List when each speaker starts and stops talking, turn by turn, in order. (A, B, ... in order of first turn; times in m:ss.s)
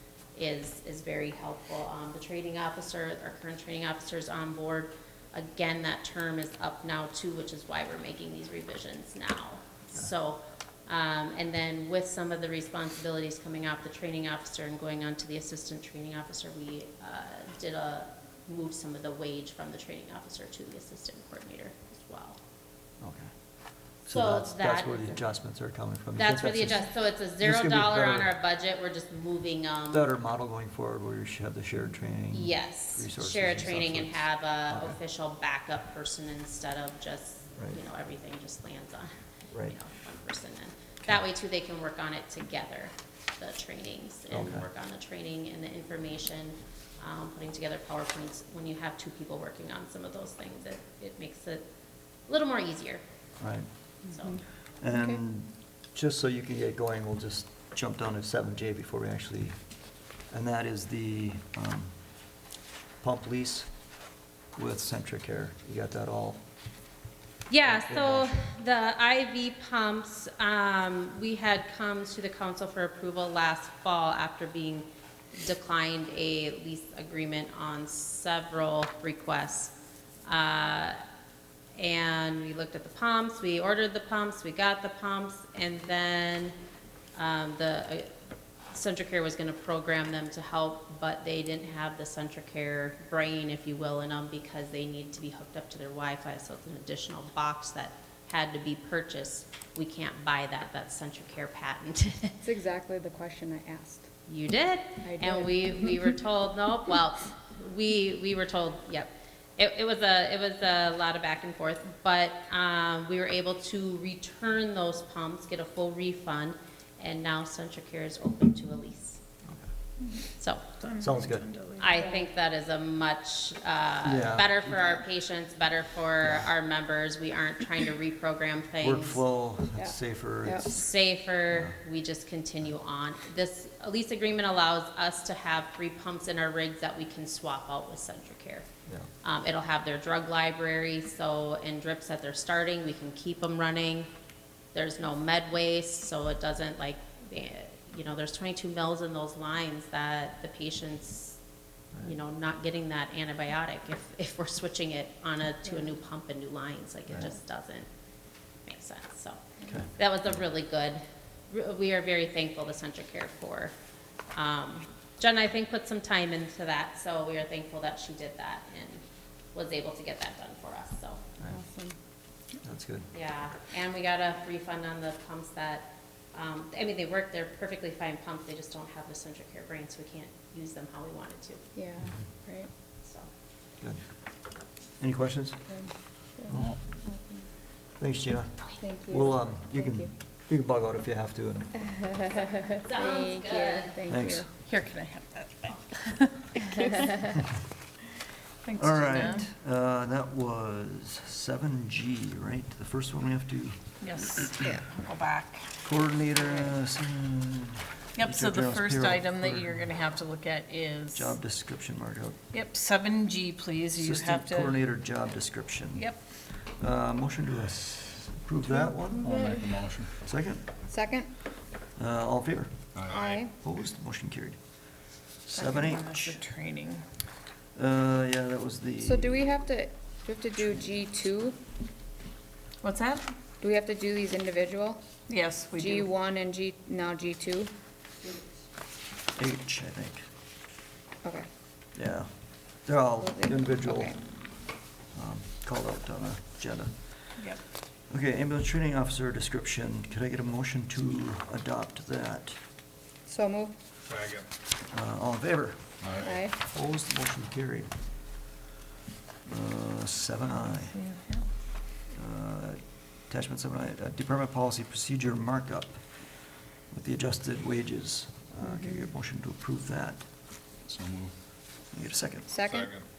0:00.4-0:22.4 A
0:23.0-0:23.3 B
0:23.8-0:28.3 B
0:24.1-0:25.2 A
0:26.2-0:30.0 A
0:29.9-0:35.0 B
0:32.3-0:39.1 A
0:39.5-0:39.8 B
0:39.6-0:51.7 A
0:44.3-0:44.7 B
0:52.3-0:53.0 A
0:53.4-0:53.7 B
0:54.1-0:54.4 A
0:54.8-0:59.6 B
0:54.9-0:55.2 C
1:00.3-1:02.0 B
1:03.0-1:03.7 B
1:04.6-1:06.4 B
1:07.5-1:19.7 A
1:07.6-1:08.4 B
1:20.2-1:21.0 A
1:21.8-1:26.6 A
1:27.2-1:28.1 A
1:28.7-1:42.4 A
1:42.4-1:44.1 C
1:44.3-1:59.2 A
1:45.0-1:45.9 C
2:00.4-2:00.7 A
2:00.8-2:02.0 D
2:01.0-2:01.5 B
2:01.8-2:09.2 A
2:04.0-2:05.0 B
2:06.2-2:06.5 B
2:08.8-2:11.0 B
2:10.6-2:18.7 A
2:11.5-2:11.8 B
2:19.2-2:24.1 A
2:24.7-2:31.4 A
2:32.0-2:37.9 A
2:38.7-2:43.7 A
2:44.3-2:51.4 A
2:51.4-2:52.0 C
2:52.6-2:53.1 B
2:53.1-3:01.6 A
3:01.8-3:02.7 C
3:03.0-3:03.3 A
3:05.0-3:05.6 B
3:05.7-3:07.4 C
3:06.5-3:06.8 B
3:08.0-3:11.9 B
3:08.8-3:10.1 C
3:12.0-3:14.5 C
3:12.8-3:14.0 A
3:14.1-3:14.5 B
3:14.5-3:17.3 D
3:18.6-3:19.4 D
3:18.8-3:24.7 B
3:24.0-3:25.8 D
3:25.8-3:29.8 B
3:26.5-3:26.7 D
3:28.2-3:31.3 D
3:31.1-3:32.4 B
3:32.5-3:34.8 D
3:34.0-3:39.4 B
3:35.9-3:36.2 D
3:39.2-3:39.7 C
3:39.2-3:40.2 E
3:40.2-3:40.7 B
3:40.9-3:41.3 C
3:42.0-3:42.9 B
3:43.0-3:43.4 E
3:43.1-3:43.5 C
3:43.5-3:44.6 B
3:45.4-3:46.4 B
3:45.6-3:47.0 D
3:47.8-3:49.5 B
3:49.0-3:51.6 C
3:52.8-3:53.3 D
3:53.6-3:55.0 C
3:55.3-3:56.1 D
3:55.7-3:57.7 C
3:59.4-4:00.2 B
4:01.2-4:01.5 C
4:02.0-4:04.6 B
4:03.2-4:04.2 C
4:05.1-4:07.6 B
4:08.1-4:12.6 B
4:13.3-4:13.7 C
4:14.1-4:14.5 E
4:14.9-4:17.9 B
4:16.0-4:16.4 E
4:16.2-4:16.6 C
4:19.5-4:21.0 B
4:20.9-4:21.4 D
4:22.1-4:30.3 B
4:30.8-4:31.4 E
4:31.9-4:32.7 B
4:32.5-4:32.9 C
4:32.7-4:33.1 E